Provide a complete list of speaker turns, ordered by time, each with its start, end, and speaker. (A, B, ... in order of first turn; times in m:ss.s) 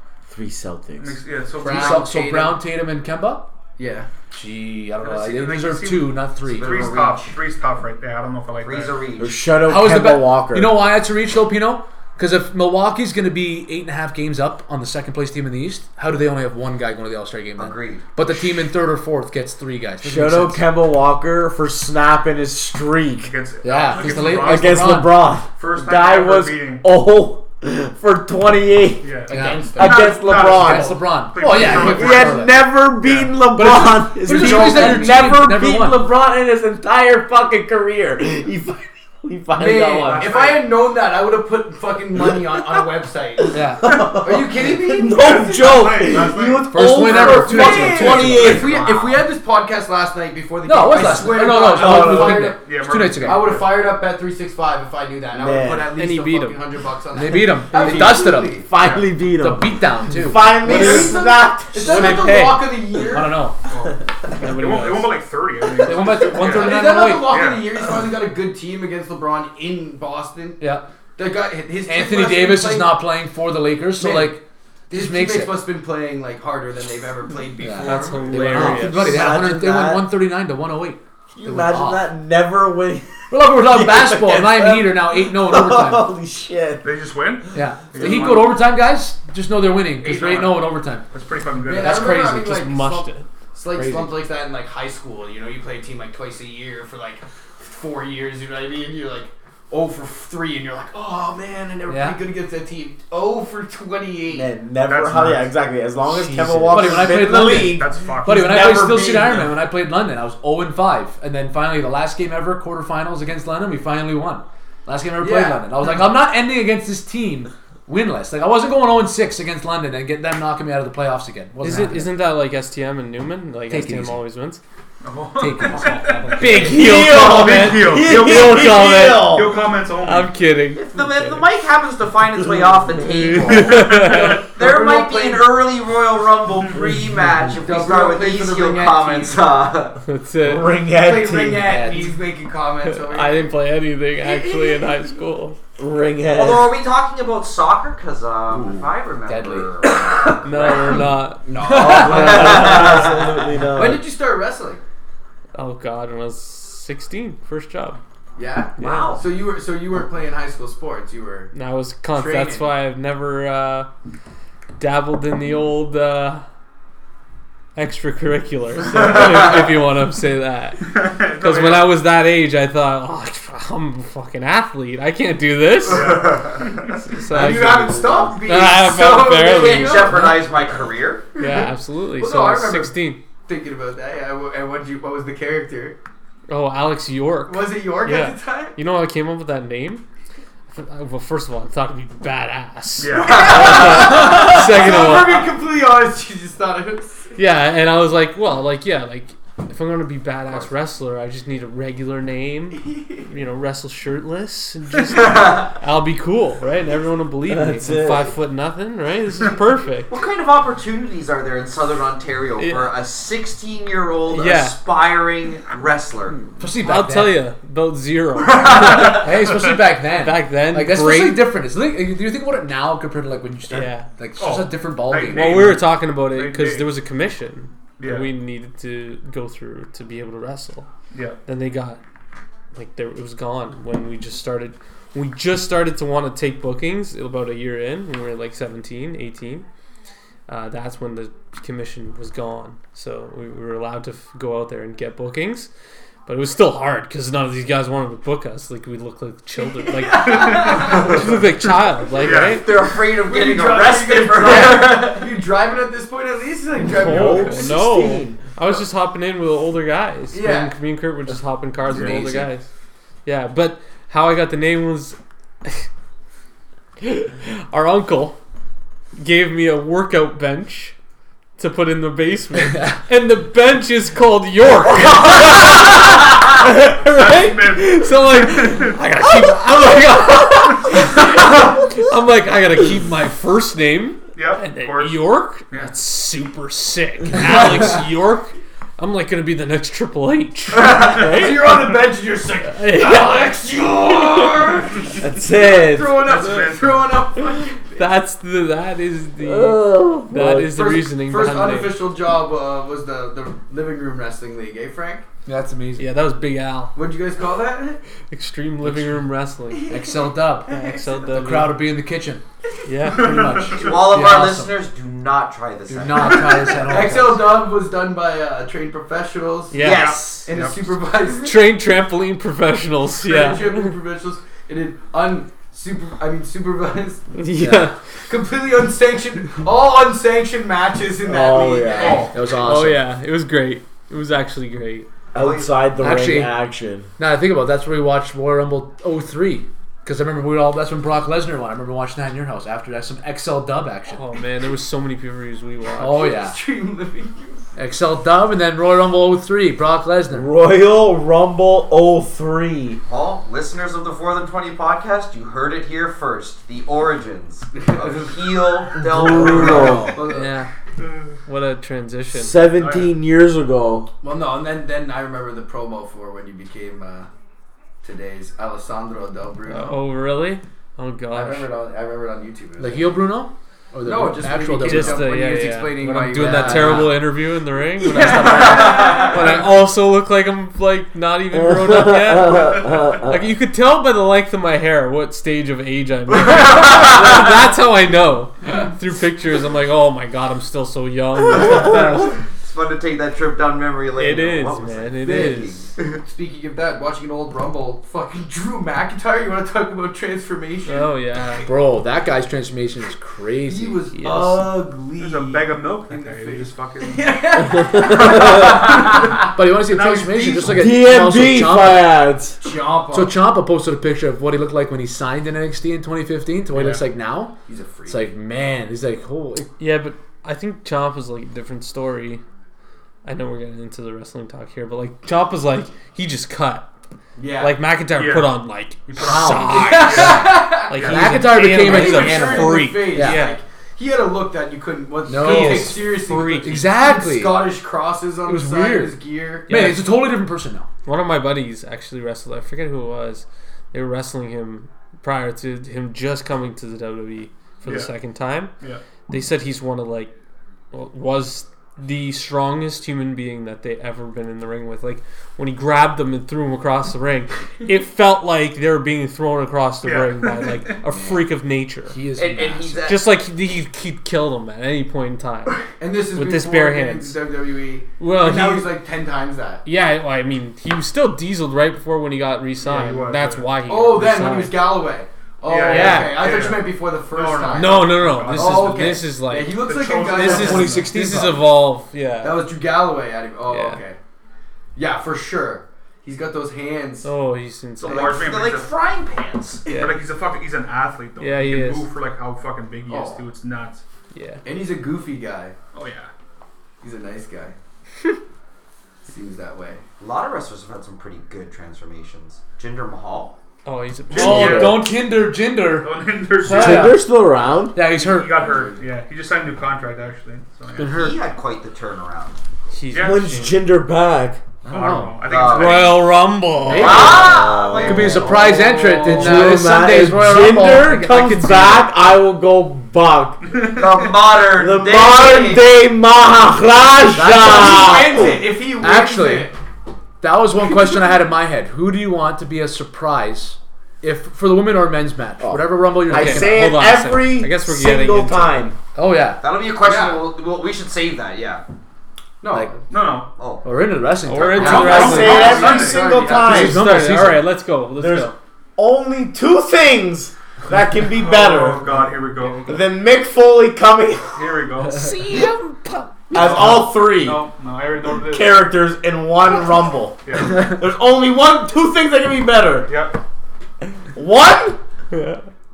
0:00.3-0:01.2 A
0:01.0-0:02.1 B
0:01.6-0:02.6 C
0:01.7-0:03.5 D
0:03.8-0:04.1 C
0:04.3-0:06.9 D
0:05.0-0:09.0 B
0:06.6-0:07.4 E
0:08.6-0:09.5 E
0:09.2-0:10.8 A
0:09.6-0:20.7 D
0:17.6-0:18.1 E
0:20.0-0:23.3 A
0:23.2-0:26.9 B
0:23.6-0:25.3 D
0:24.3-0:31.0 A
0:29.0-0:33.5 B
0:29.3-0:30.4 C
0:29.3-0:32.7 D
0:31.6-0:40.5 A
0:33.5-0:36.0 D
0:34.4-0:34.7 B
0:34.5-0:35.0 C
0:39.6-0:46.2 C
0:40.0-0:40.8 B
0:42.2-0:42.5 A
0:43.5-0:43.9 D
0:43.8-0:48.8 A
0:45.1-0:47.0 B
0:46.7-0:48.6 D
0:47.0-0:52.7 C
0:47.7-0:49.3 E
0:50.6-0:53.6 D
0:51.3-0:52.6 A
0:52.6-0:53.8 B
0:53.2-0:58.7 C
0:55.3-0:56.0 A
0:56.0-0:56.6 F
0:57.1-0:58.7 D
0:57.8-1:02.2 A
0:58.8-0:59.1 B
0:59.4-1:00.9 D
1:00.6-1:03.5 C
1:00.7-1:01.1 B
1:01.8-1:02.8 F
1:03.1-1:03.6 D
1:03.7-1:07.8 B
1:04.4-1:05.1 F
1:05.8-1:07.3 D
1:06.2-1:10.6 C
1:10.6-1:10.9 D
1:11.2-1:13.0 C
1:11.9-1:15.6 D
1:14.0-1:18.9 C
1:17.6-1:22.1 D
1:17.8-1:19.3 F
1:18.3-1:20.1 A
1:21.3-1:26.9 A
1:23.3-1:26.1 D
1:26.8-1:28.6 B
1:27.5-1:31.0 D
1:30.0-1:32.2 B
1:31.6-1:44.5 C
1:31.8-1:32.6 D
1:32.3-1:33.3 F
1:33.7-1:34.2 D
1:41.9-1:42.2 D
1:44.3-1:49.5 A
1:44.8-1:45.5 B
1:46.0-1:47.1 F
1:46.7-2:02.1 D
1:47.1-1:48.5 B
1:55.2-1:55.9 C
2:01.6-2:04.6 F
2:03.7-2:04.2 D
2:05.0-2:10.4 B
2:05.4-2:06.7 D
2:06.3-2:09.4 F
2:06.4-2:09.6 A
2:10.0-2:11.4 F
2:10.7-2:20.0 E
2:13.1-2:14.5 F
2:13.6-2:14.5 B
2:14.6-2:15.6 C
2:17.6-2:19.6 C
2:20.1-2:20.8 F
2:20.4-2:21.9 A
2:20.9-2:23.5 C
2:21.6-2:22.2 D
2:22.8-2:25.6 F
2:24.2-2:25.0 C
2:25.8-2:26.7 A
2:26.3-2:30.9 E
2:28.5-2:28.9 A
2:29.3-2:29.7 D
2:29.9-2:33.1 C
2:30.4-2:31.4 F
2:31.6-2:34.0 A
2:31.7-2:32.4 D
2:32.1-2:33.1 E
2:33.7-2:34.8 C
2:35.5-2:38.0 F
2:38.4-2:41.5 C
2:38.8-2:39.2 F
2:38.8-2:39.3 E
2:41.5-2:43.9 F
2:42.1-2:42.7 C
2:44.8-2:46.4 F
2:47.8-2:56.3 F
2:50.8-2:51.9 B
2:55.9-2:56.6 C
2:55.9-2:57.1 B
2:57.1-3:00.4 F
2:57.3-3:00.3 C
2:59.4-3:01.3 E
3:01.4-3:03.2 F
3:01.4-3:06.0 C
3:06.5-3:10.0 F
3:07.5-3:08.8 C
3:10.7-3:15.5 F
3:13.0-3:13.9 B
3:13.1-3:17.3 C
3:13.2-3:14.7 E
3:17.4-3:30.1 F
3:27.5-3:28.3 A
3:30.1-3:36.4 E
3:32.6-3:33.0 F
3:34.3-3:34.8 F
3:36.6-3:37.4 D
3:36.7-3:41.5 F
3:38.4-3:39.2 E
3:38.7-3:39.7 B
3:38.7-3:45.6 D
3:43.7-3:44.1 F
3:44.4-3:46.9 B
3:45.3-3:50.9 F
3:48.0-3:48.3 B
3:51.1-3:51.4 B
3:51.5-3:52.0 F
3:52.7-3:59.6 F
4:00.5-4:05.7 F
4:06.3-4:12.7 F
4:09.6-4:11.4 C
4:10.2-4:11.4 B
4:12.1-4:12.7 B
4:12.2-4:17.7 C
4:12.4-4:15.4 E
4:14.4-4:15.0 F
4:16.8-4:22.7 F
4:16.9-4:18.4 A
4:20.3-4:20.8 C
4:21.9-4:22.3 B
4:21.9-4:22.4 A
4:23.2-4:25.9 F
4:27.0-4:28.4 F
4:29.2-4:31.0 F
4:31.6-4:51.6 F
4:32.6-4:33.0 D
4:37.0-4:39.0 B
4:44.4-4:45.9 B
4:50.7-4:58.1 C
4:51.2-4:51.9 B
4:52.7-4:53.5 F
4:55.2-4:56.3 A
4:56.2-4:57.3 B
4:58.0-5:02.0 F
4:59.4-5:00.8 A
5:00.6-5:05.2 C
5:05.5-5:06.1 D
5:06.0-5:07.0 F
5:07.0-5:08.0 C
5:08.3-5:09.9 F
5:08.8-5:09.2 D
5:09.7-5:11.3 C
5:09.9-5:10.7 D
5:10.7-5:11.8 F
5:11.3-5:12.4 D
5:12.9-5:13.7 F
5:13.0-5:14.1 B
5:13.2-5:14.8 D
5:13.8-5:16.9 E
5:15.9-5:17.6 D
5:16.7-5:19.9 C
5:19.7-5:20.4 F
5:19.8-5:20.5 E
5:19.9-5:20.9 B
5:20.5-5:21.6 C
5:21.4-5:23.9 F
5:23.2-5:27.3 C
5:27.3-5:28.0 F
5:27.6-5:27.9 D
5:28.3-5:32.4 C
5:31.2-5:32.3 A
5:32.0-5:32.4 B
5:32.3-5:33.0 D
5:32.6-5:35.1 F
5:35.3-5:35.9 E
5:35.3-5:37.1 A
5:36.0-5:36.7 D
5:37.2-5:44.2 D
5:44.1-5:46.3 F
5:46.0-5:46.6 D
5:46.0-5:47.6 C
5:47.8-5:50.5 D
5:50.3-5:53.0 A
5:53.0-6:00.2 E
5:57.8-5:58.3 C
5:59.0-6:00.2 A
5:59.3-6:00.5 C
6:00.3-6:00.7 F
6:01.5-6:02.6 F
6:02.3-6:04.1 A
6:02.8-6:03.1 B
6:04.2-6:07.3 C
6:08.0-6:10.0 C
6:09.7-6:11.7 F
6:11.3-6:13.2 C
6:12.8-6:15.3 D
6:14.0-6:17.3 C
6:14.8-6:32.4 F
6:16.3-6:17.2 D
6:18.0-6:19.6 C
6:18.3-6:18.8 D
6:21.5-6:23.4 A
6:31.6-6:35.9 E
6:34.2-6:35.8 F
6:35.2-6:41.1 C
6:40.9-6:41.7 F
6:41.6-6:44.0 D
6:43.6-6:49.4 C
6:44.1-6:44.6 F
6:44.2-6:45.4 A
6:45.2-6:47.6 B
6:47.9-6:48.9 A
6:48.3-6:50.8 B
6:49.4-6:52.1 D
6:50.6-6:52.6 A
6:52.6-6:53.4 C
6:53.1-6:57.5 D
6:57.7-6:58.2 C
6:58.1-6:59.7 D
6:59.8-7:02.4 F
7:03.2-7:06.9 F
7:07.4-7:07.8 C
7:07.6-7:13.6 F
7:08.2-7:08.6 B
7:09.1-7:11.4 B
7:09.2-7:13.4 D
7:09.7-7:19.7 C
7:15.3-7:17.6 D
7:15.4-7:16.9 F
7:18.5-7:20.9 D
7:19.7-7:20.1 F
7:21.0-7:28.7 F
7:27.9-7:28.1 B
7:29.3-7:30.3 F
7:30.9-7:42.2 F
7:40.0-7:41.0 B
7:42.1-7:43.1 D
7:42.4-7:43.3 E
7:43.0-7:47.4 F
7:45.9-7:49.8 C
7:48.2-7:48.9 F
7:49.8-7:55.0 F
7:52.8-7:53.7 B
7:53.9-8:01.0 C
7:55.7-7:59.2 B
7:55.8-7:56.6 F
7:57.7-7:59.8 F
7:59.7-8:01.2 B
8:00.3-8:02.7 F
8:00.4-8:01.6 D
8:02.4-8:04.2 C
8:03.7-8:04.0 F
8:05.0-8:07.3 C
8:07.2-8:08.4 F
8:08.0-8:08.9 B
8:08.0-8:09.9 E
8:09.9-8:10.2 F
8:09.9-8:14.0 B
8:11.4-8:12.1 F
8:13.1-8:13.4 C
8:14.3-8:14.6 F
8:14.6-8:15.8 C
8:15.9-8:16.3 B
8:17.0-8:17.8 C
8:19.3-8:20.0 C
8:20.2-8:23.6 E
8:23.8-8:25.0 F
8:24.3-8:25.1 B
8:24.3-8:27.3 D
8:24.5-8:24.8 A
8:26.0-8:27.2 B
8:26.6-8:28.0 A
8:28.0-8:28.5 D
8:28.1-8:31.2 B
8:28.6-8:29.0 C
8:31.0-8:31.3 D
8:31.1-8:32.6 E
8:32.9-8:33.8 F
8:33.1-8:33.4 B
8:33.2-8:34.6 A
8:34.9-8:35.4 D
8:34.9-8:36.3 B
8:35.4-8:36.1 E
8:35.6-8:37.6 F
8:36.9-8:38.7 E
8:36.9-8:41.8 D
8:37.0-8:43.6 A
8:38.8-8:39.5 C
8:41.0-8:42.1 F
8:43.6-8:44.5 B
8:43.8-8:45.9 E
8:44.7-8:48.7 A
8:47.4-8:48.3 D
8:47.6-8:49.8 C
8:49.0-8:49.7 D
8:50.4-8:56.9 D
8:55.6-8:59.0 A
8:56.3-8:58.8 F
8:59.2-8:59.6 D
8:59.6-9:01.8 E
9:00.0-9:00.4 C
9:02.6-9:03.1 C
9:03.1-9:03.5 B
9:03.6-9:03.9 E
9:03.8-9:05.6 D
9:04.5-9:08.6 F
9:04.7-9:06.8 C
9:04.8-9:06.4 B
9:04.8-9:07.1 A
9:06.5-9:07.6 D
9:08.2-9:12.1 A
9:11.3-9:12.9 B
9:12.3-9:13.0 F
9:12.9-9:14.8 A
9:14.5-9:15.3 B
9:15.2-9:16.5 F
9:16.5-9:17.6 A
9:16.5-9:18.8 B
9:18.3-9:23.1 A
9:20.4-9:20.9 B
9:23.1-9:23.4 B
9:24.4-9:25.0 A
9:25.3-9:25.6 F